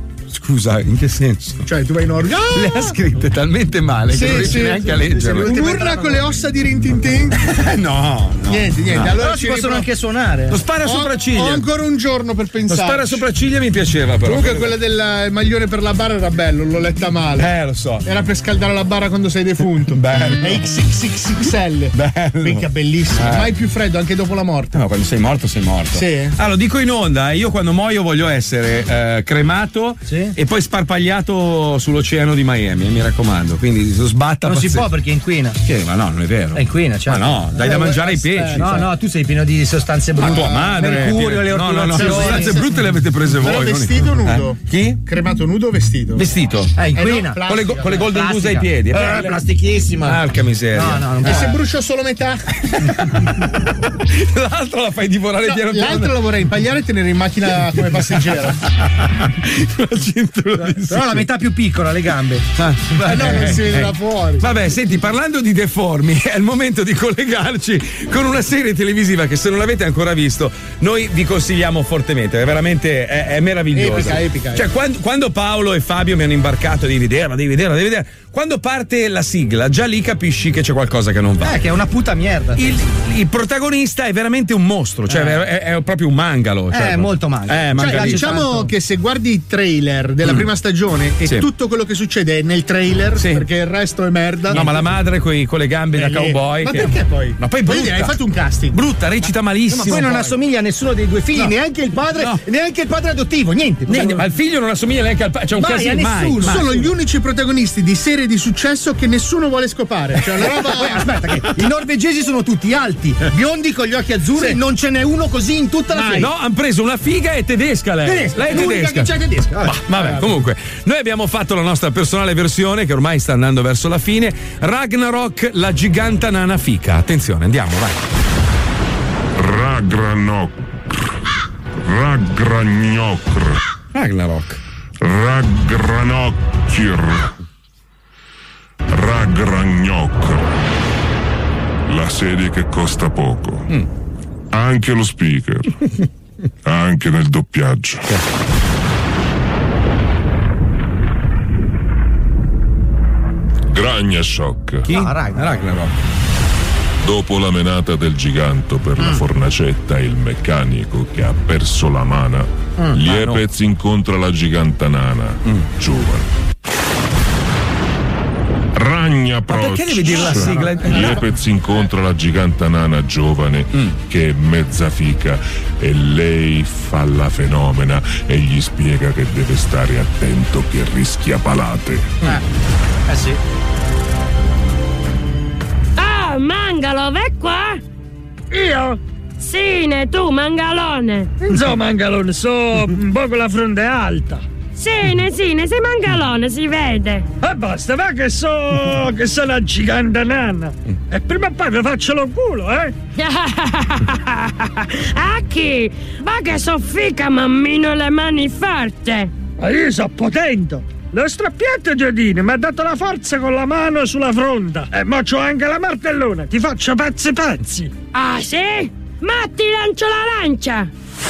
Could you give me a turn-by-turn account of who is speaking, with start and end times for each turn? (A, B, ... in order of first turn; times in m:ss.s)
0:00.3-0:01.7 A
0:01.6-0:03.0 B
0:02.5-0:05.6 A
0:04.1-0:07.4 B
0:04.2-0:06.2 C
0:07.4-0:09.1 A
0:08.5-0:09.9 B
0:09.0-0:10.6 C
0:10.5-0:11.7 A
0:10.8-0:13.2 B
0:12.7-0:14.7 A
0:14.2-0:17.5 B
0:17.4-0:18.1 A
0:18.0-0:24.7 B
0:19.9-0:20.7 A
0:21.9-0:23.5 A
0:24.7-0:34.9 A
0:25.9-0:26.4 B
0:30.1-0:30.4 C
0:34.4-0:35.6 C
0:35.6-0:38.9 A
0:36.5-0:42.6 C
0:37.6-0:38.9 B
0:40.2-0:45.0 A
0:40.3-0:41.0 B
0:41.9-0:42.7 B
0:43.3-0:46.3 B
0:46.2-0:46.8 A
0:46.8-0:50.2 C
0:46.9-0:48.0 B
0:47.5-0:49.4 A
0:50.0-0:51.4 A
0:50.7-0:51.6 C
0:51.2-0:52.9 B
0:52.8-0:56.1 A
0:55.4-0:58.6 B
0:59.0-1:01.3 A
1:00.6-1:03.6 C
1:02.6-1:21.6 A
1:03.0-1:04.5 B
1:13.7-1:14.7 B
1:21.4-1:22.8 C
1:22.6-1:28.4 A
1:25.1-1:25.4 C
1:26.7-1:28.7 C
1:27.8-1:34.8 B
1:30.2-1:30.5 A
1:33.2-1:33.5 A
1:34.5-1:38.2 A
1:36.0-1:38.8 B
1:38.7-1:40.3 A
1:39.7-1:44.2 C
1:39.8-1:40.2 B
1:43.9-1:46.6 A
1:45.6-1:46.9 C
1:46.4-1:51.1 B
1:50.3-1:56.3 C
1:55.9-1:56.3 B
1:56.2-2:08.0 A
1:58.0-1:59.8 C
2:00.0-2:00.4 B
2:09.4-2:11.1 D
2:11.8-2:13.6 D
2:13.9-2:14.6 A
2:15.0-2:17.3 D
2:18.9-2:20.6 D
2:21.9-2:23.7 D
2:24.5-2:25.8 D
2:26.6-2:28.1 D
2:33.7-2:34.9 D
2:34.9-2:36.0 A
2:34.9-2:35.5 C
2:37.0-2:46.3 D
2:43.0-2:43.4 A
2:48.7-3:02.2 D
2:49.5-2:51.2 A
2:50.3-2:50.8 C
3:03.1-3:03.4 C
3:06.0-3:07.8 E
3:08.5-3:09.0 F
3:09.4-3:11.4 E
3:11.4-3:14.4 F
3:14.8-3:17.3 E
3:17.4-3:22.9 F
3:23.2-3:29.3 E
3:29.6-3:37.9 F
3:38.1-3:40.9 E